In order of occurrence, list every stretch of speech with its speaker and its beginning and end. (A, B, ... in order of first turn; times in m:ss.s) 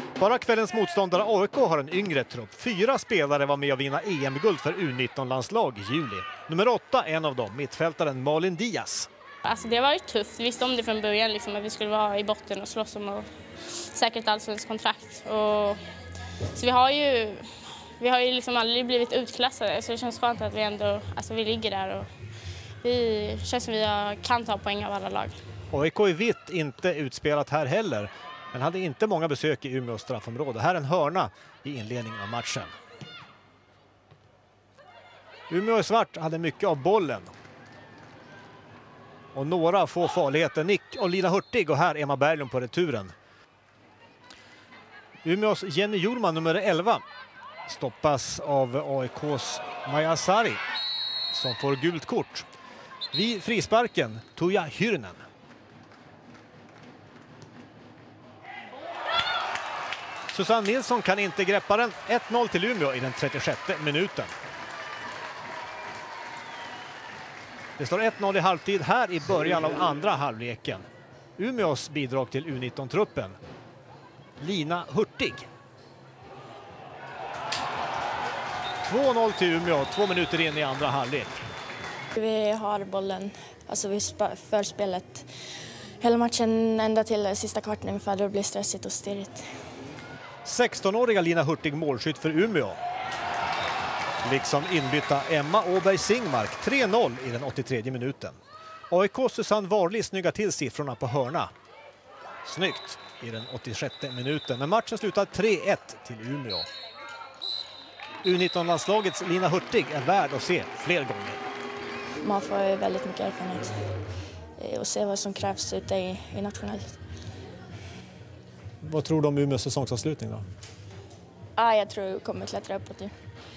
0:00.2-0:09.1 A
0:09.4-0:15.8 B
0:16.5-0:22.1 B
0:22.8-0:25.4 B
0:25.7-0:32.7 A
0:35.5-0:37.3 A
0:39.3-0:43.1 A
0:45.2-0:47.0 A
0:47.7-0:50.6 A
0:51.3-0:52.5 A
0:53.1-0:55.3 A
1:00.3-1:04.3 A
1:07.8-1:10.9 A
1:11.4-1:13.4 A
1:14.4-1:15.5 A
1:18.8-1:21.4 A
1:22.2-1:25.3 C
1:26.0-1:29.5 C
1:30.4-1:32.8 A
1:34.2-1:38.4 A
1:38.9-1:41.5 A
1:42.4-1:46.7 A
1:48.2-1:51.4 A
1:52.2-1:53.9 C
1:54.6-1:57.0 C
1:58.8-2:00.4 A
2:01.6-2:03.1 C